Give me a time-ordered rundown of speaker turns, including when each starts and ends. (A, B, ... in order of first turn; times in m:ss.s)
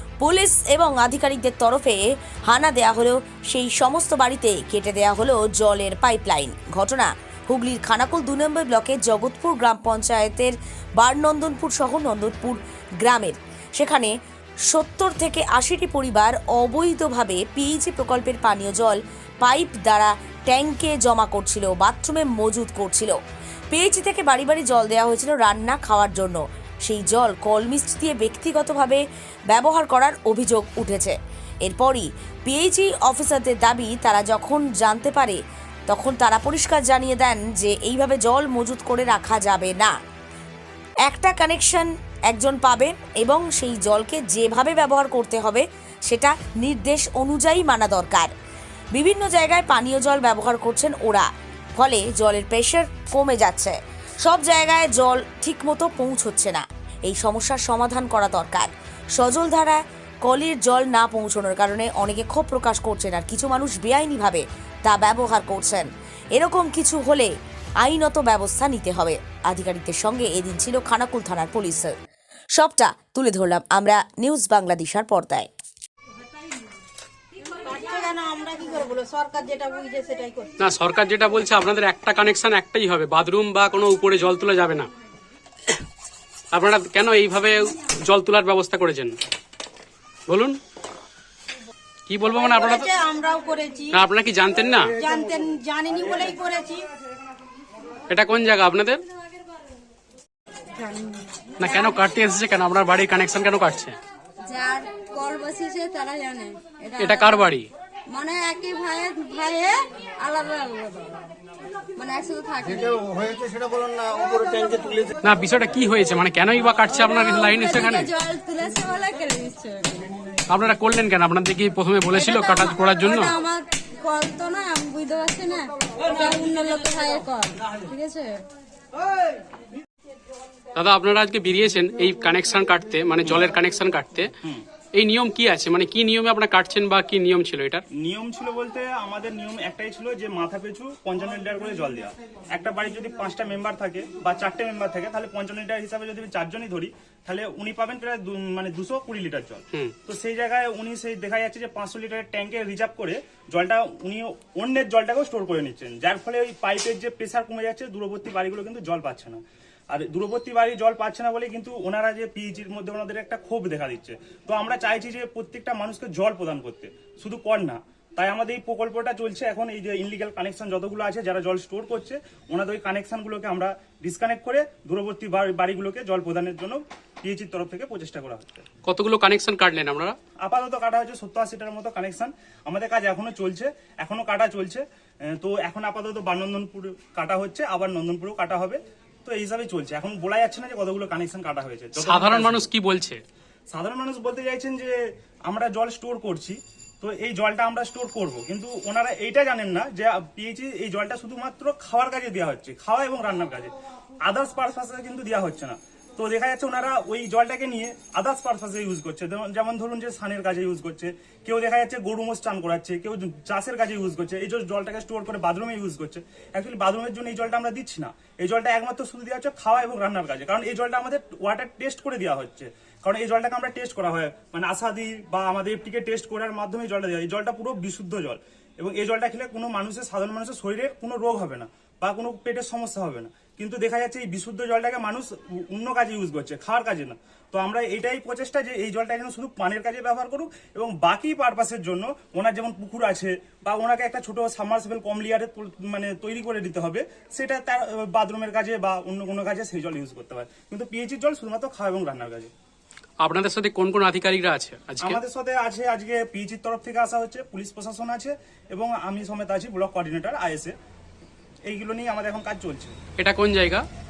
0:00.2-0:14.1 A
0:14.7-0:23.2 A
0:23.7-0:35.4 A
0:35.9-0:40.0 A
0:41.1-0:48.3 A
0:49.0-1:07.3 A
1:07.8-1:11.9 A
1:12.6-1:15.5 A
1:17.6-1:20.5 B
1:20.6-1:24.9 C
1:26.5-1:29.1 C
1:30.3-1:30.6 C
1:32.1-1:32.9 C
1:32.7-1:34.0 B
1:33.9-1:35.0 C
1:35.0-1:36.9 B
1:38.1-1:39.0 C
1:40.8-1:42.0 D
1:41.6-1:44.0 C
1:44.5-1:47.5 D
1:47.0-1:47.7 C
1:48.1-1:51.2 D
1:52.0-1:55.1 D
1:55.2-1:58.1 C
1:56.9-2:00.1 D
2:00.5-2:03.3 C
2:02.2-2:08.4 D
2:10.8-2:14.3 C
2:15.0-2:17.8 C
2:18.0-2:58.6 E
2:58.8-3:00.2 C
3:00.4-3:12.7 E
3:12.0-3:13.2 C
3:13.7-3:15.0 E
3:15.5-3:23.7 E
3:24.3-4:12.5 E
4:13.2-4:15.2 C
4:15.0-4:20.8 E
4:21.7-4:23.0 E
4:23.2-4:23.8 C